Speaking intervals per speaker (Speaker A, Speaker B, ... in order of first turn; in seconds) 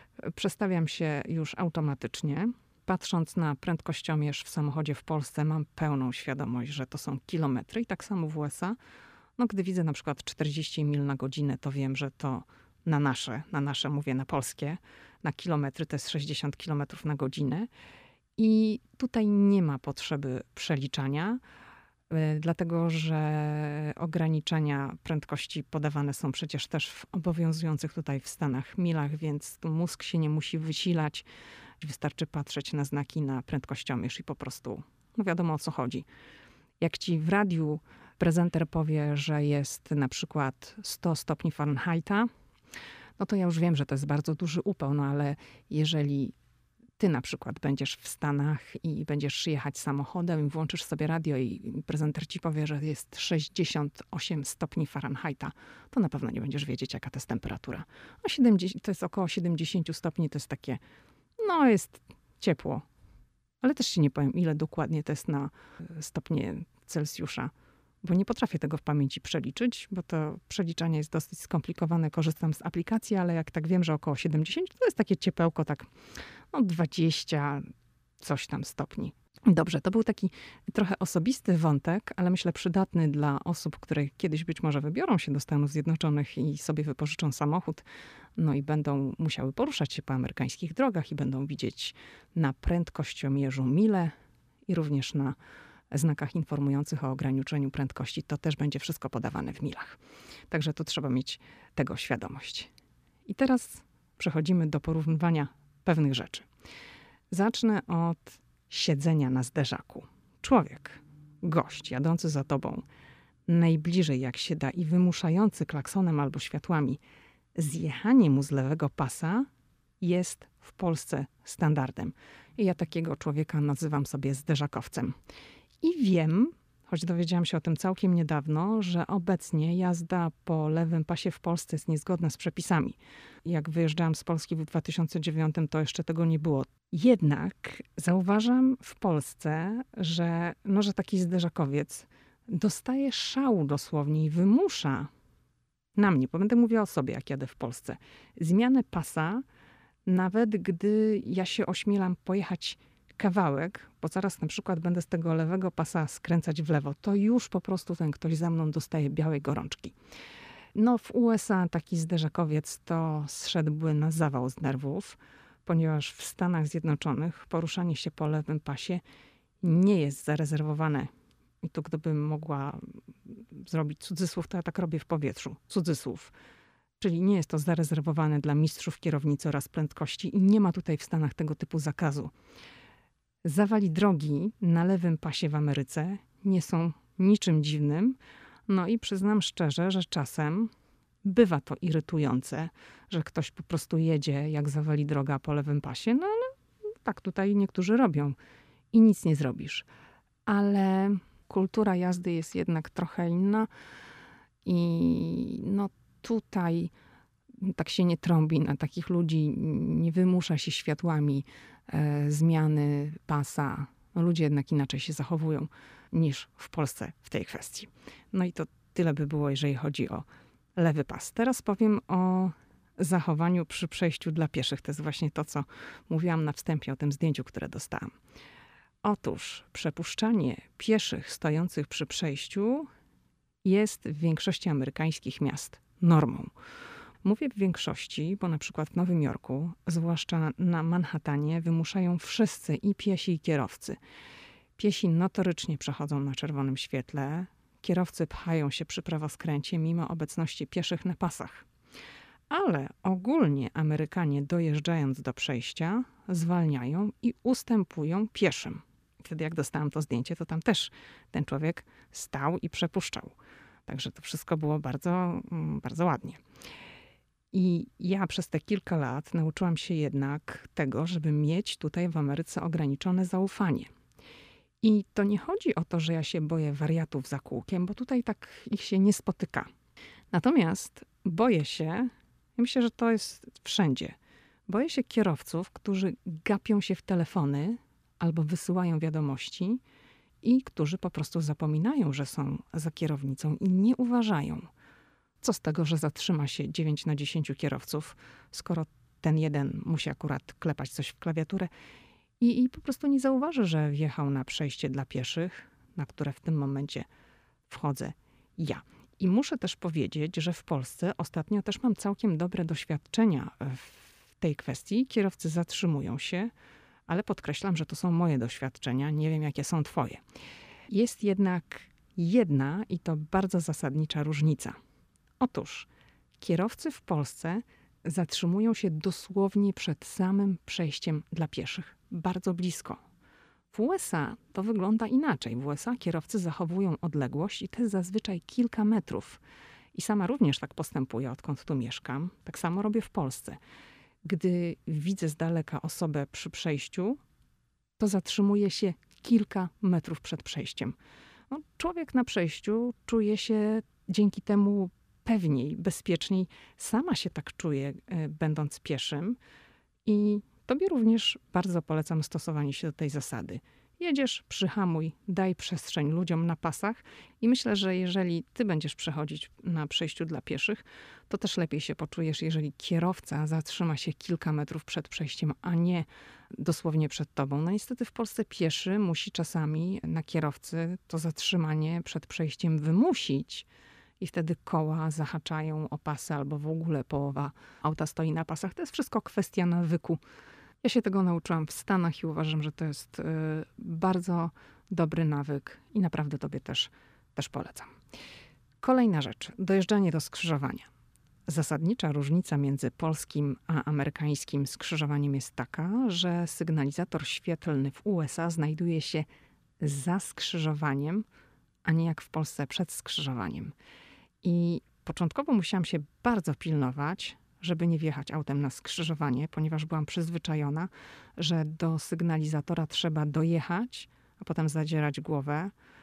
Speaker A: 0.2-8.8, 9.4-17.7, 18.4-21.4, 22.1-31.2, 31.8-36.0, 36.8-42.3, 43.2-46.3, 47.0-60.8, 61.4-62.9, 63.6-67.5, 68.0-75.9, 76.5-77.7, 78.2-87.8, 88.4-94.1, 94.7-95.4, 95.9-100.0, 100.5-102.7, 103.3-106.5, 107.3-112.8, 113.5-117.0, 117.6-119.5, 120.0-125.2, 125.8-145.1, 146.0-149.4, 150.1-159.9, 160.8-169.0, 169.6-171.1, 171.6-176.3, 177.0-182.3, 183.4-190.7, 191.2-196.5, 197.0-198.4, 198.9-199.9, 200.5-203.7, 204.7-206.9, 207.6-220.2, 220.8-228.1, 229.0-232.9, 233.6-236.5, 237.2-244.0, 244.8-251.7, 252.5-263.3, 263.9-266.4, 267.5-273.9, 274.8-279.7, 280.3-284.1, 284.7-289.8, 290.4-294.7, 295.4-301.7, 302.4-307.1, 307.7-316.5, 317.1-320.2, 320.9-324.8, 325.4-325.9, 326.4-333.0, 333.7-339.4, 339.9-343.6, 344.2-347.2, 348.0-350.9, 351.5-359.4, 360.1-383.7, 384.2-390.2, 390.8-397.9, 398.8-400.9, 401.5-409.3, 409.8-411.2, 411.9-413.7, 414.4-425.7